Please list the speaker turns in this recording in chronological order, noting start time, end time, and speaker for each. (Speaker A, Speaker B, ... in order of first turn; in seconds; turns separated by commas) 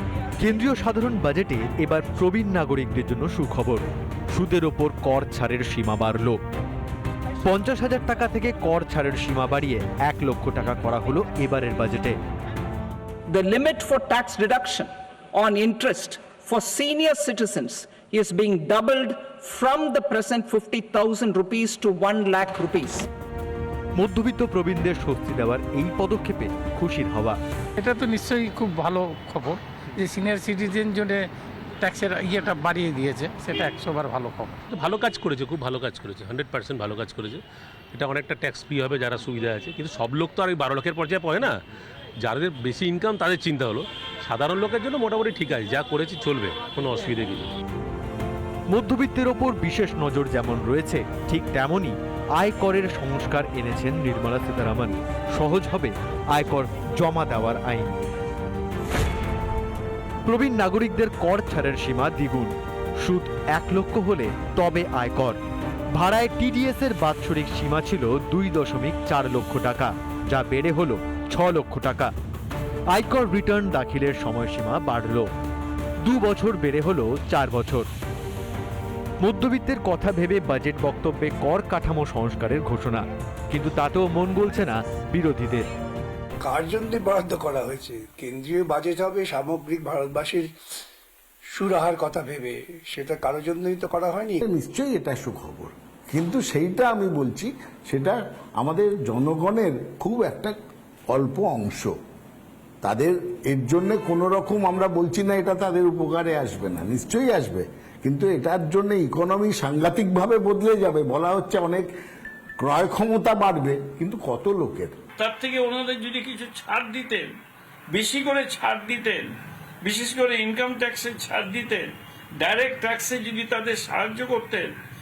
Speaker A: 0.4-6.4, Speaker A: 7.4-12.2, Speaker B: 13.3-23.1, Speaker A: 23.9-27.4, Speaker C: 27.8-31.2, Speaker C: 31.8-34.6, Speaker D: 34.7-37.4, Speaker D: 37.9-41.6, Speaker D: 42.2-47.5, Speaker A: 48.7-58.0, Speaker A: 60.2-65.4, Speaker A: 65.9-72.1, Speaker A: 72.9-75.3, Speaker A: 76.0-77.9, Speaker A: 79.2-85.7, Speaker E: 86.4-90.5, Speaker E: 91.5-94.4, Speaker F: 94.5-100.5, Speaker F: 101.1-101.9, Speaker F: 102.8-111.9, Speaker F: 112.6-115.0, Speaker G: 115.2-117.3, Speaker G: 117.9-119.3, Speaker G: 119.8-124.7